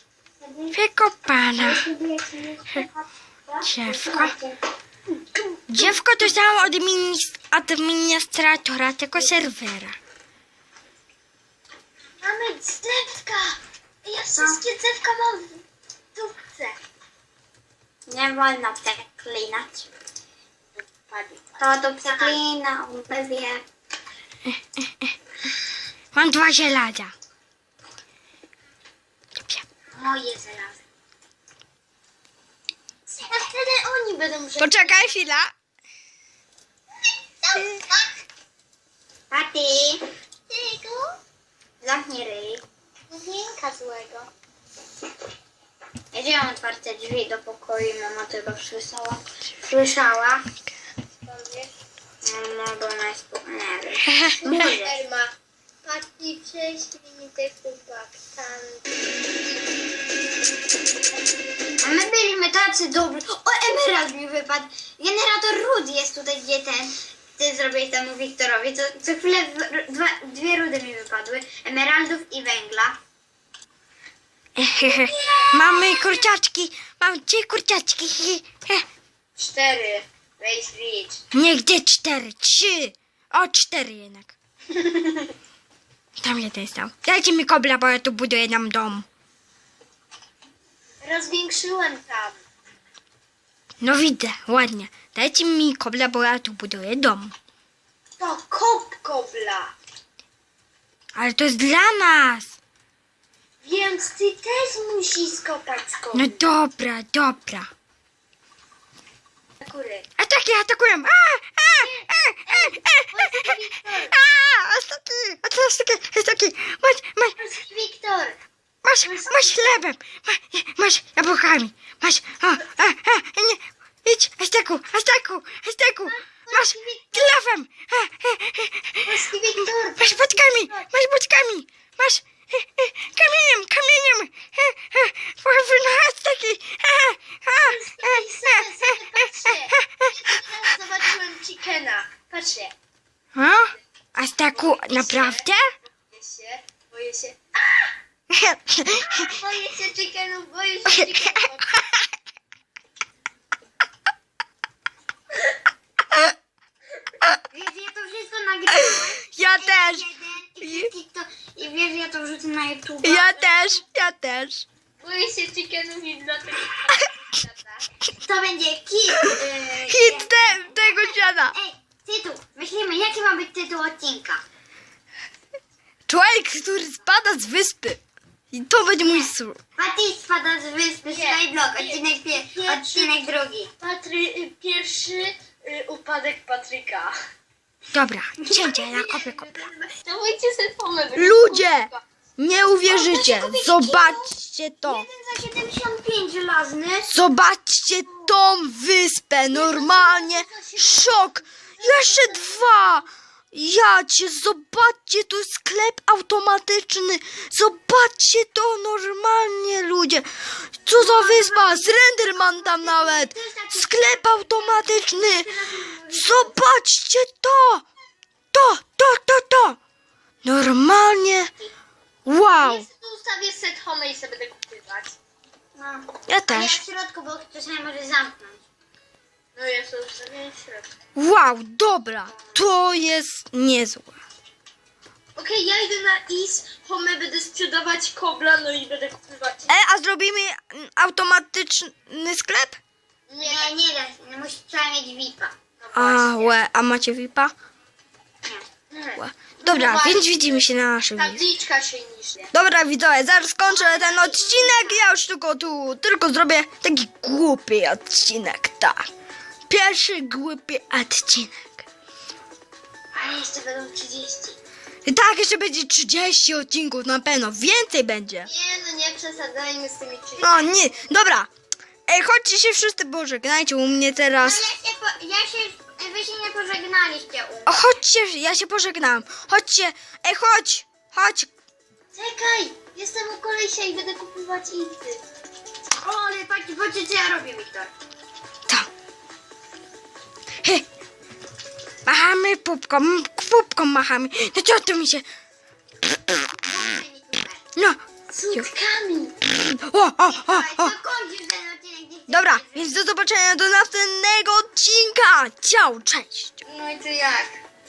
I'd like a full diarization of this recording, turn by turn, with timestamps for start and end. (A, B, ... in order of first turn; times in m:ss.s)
0:00.4-0:00.8 A
0:00.7-0:01.8 B
0:01.6-0:04.6 A
0:03.6-0:04.3 B
0:05.7-0:10.0 B
0:12.2-0:15.6 C
0:14.3-0:14.6 A
0:16.1-0:16.8 C
0:18.1-0:19.8 A
0:20.7-0:22.4 C
0:21.6-0:23.6 A
0:24.4-0:25.1 B
0:26.1-0:27.1 B
0:29.4-0:29.6 B
0:30.0-0:30.7 A
0:30.4-0:30.7 C
0:33.2-0:35.2 C
0:34.6-0:35.5 B
0:37.4-0:37.7 C
0:39.3-0:40.1 A
0:40.5-0:41.1 C
0:41.8-0:42.6 A
0:43.1-0:44.3 C
0:46.1-0:50.4 A
0:51.2-0:51.7 C
0:52.2-0:55.0 A
0:54.1-0:54.4 B
0:54.4-0:55.3 C
0:55.8-0:59.0 C
1:01.8-1:13.0 A
1:14.6-1:18.8 B
1:15.0-1:16.3 A
1:19.4-1:21.2 C
1:21.3-1:24.3 B
1:24.9-1:25.2 C
1:26.2-1:29.0 B
1:31.0-1:32.4 C
1:33.8-1:37.3 B
1:38.2-1:39.7 C
1:41.1-1:42.5 B
1:43.6-1:46.4 C
1:46.1-1:47.7 B
1:49.6-1:50.1 C
1:50.2-1:53.6 B
1:51.8-1:54.2 C
1:54.1-1:57.3 B
1:57.4-1:58.4 C
1:58.8-2:09.1 B
1:59.0-1:59.7 C
2:06.5-2:07.4 C
2:09.0-2:10.9 C
2:10.0-2:20.1 B
2:17.6-2:22.7 C
2:23.3-2:25.6 B
2:24.5-2:25.5 C
2:26.0-2:27.9 C
2:28.3-2:29.3 B
2:29.1-2:31.8 C
2:37.5-2:43.6 A
2:38.7-2:40.1 B
2:40.6-2:40.9 B
2:43.0-2:44.6 B
2:45.0-2:47.8 C
2:48.2-2:54.4 A
2:49.2-2:51.5 B
2:56.1-2:58.0 B
2:58.5-2:59.6 B
2:59.0-3:03.7 A
3:01.1-3:03.1 C
3:03.8-3:07.1 C
3:07.9-3:09.5 B
3:08.4-3:09.9 A
3:10.0-3:12.0 C
3:11.2-3:15.1 B
3:12.8-3:14.3 A
3:14.8-3:17.1 A
3:17.1-3:30.2 B
3:19.5-3:21.3 C
3:21.8-3:22.3 A
3:30.8-3:35.5 B
3:30.9-3:36.6 A
3:36.1-3:37.8 B
3:38.5-3:39.8 B
3:40.4-3:41.5 B
3:42.2-3:42.9 B
3:42.6-3:45.2 C
3:45.8-3:48.6 A
3:46.3-3:46.8 B
3:49.5-3:50.9 C
3:51.2-3:54.2 B
3:55.4-3:59.7 C
3:59.7-4:02.8 B
4:03.3-4:03.7 C
4:03.4-4:05.6 A
4:05.8-4:06.6 C
4:05.9-4:07.5 B
4:08.9-4:10.6 C
4:09.2-4:11.4 B
4:11.1-4:12.5 C
4:12.5-4:19.1 B
4:13.9-4:14.9 A
4:19.7-4:21.8 B
4:23.1-4:24.6 C
4:25.0-4:28.5 B
4:28.4-4:30.7 C
4:30.4-4:31.5 B
4:32.1-4:34.7 B
4:34.4-4:37.8 A
4:37.7-4:41.5 B
4:42.1-4:45.2 C
4:46.0-4:47.9 A
4:52.0-4:55.2 B
4:56.5-4:57.6 A
4:58.3-4:59.4 C
4:59.6-5:00.9 B
5:00.2-5:03.0 A
5:02.3-5:06.6 B
5:06.6-5:07.6 C